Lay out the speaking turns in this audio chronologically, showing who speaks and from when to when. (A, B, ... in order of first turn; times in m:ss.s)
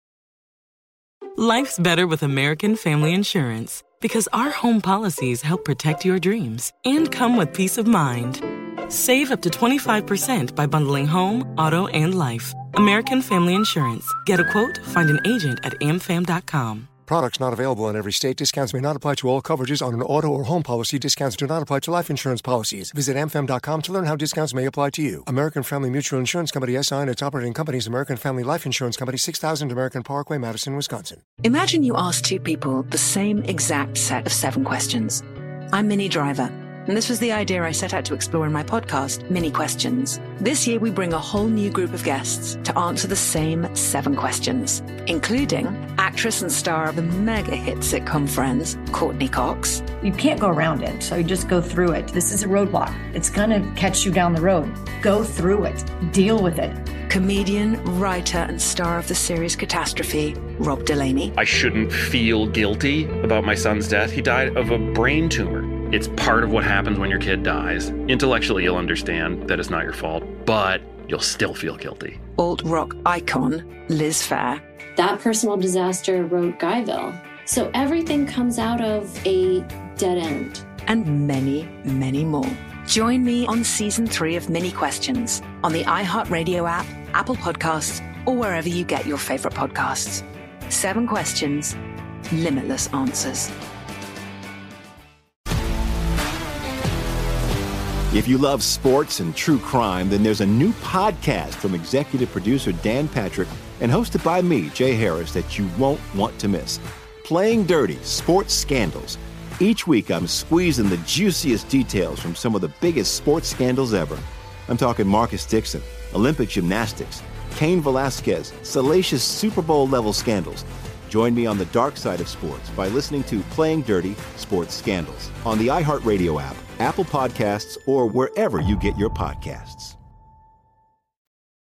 0:01.4-0:16.9 A
0:17.1-0:31.2 B
0:31.4-0:49.8 C
0:50.0-0:56.8 D
0:57.1-1:01.3 C
1:01.4-1:12.2 E
1:12.4-1:14.6 C
1:15.0-1:20.7 F
1:20.9-1:31.8 C
1:32.3-1:33.5 C
1:38.1-2:10.0 G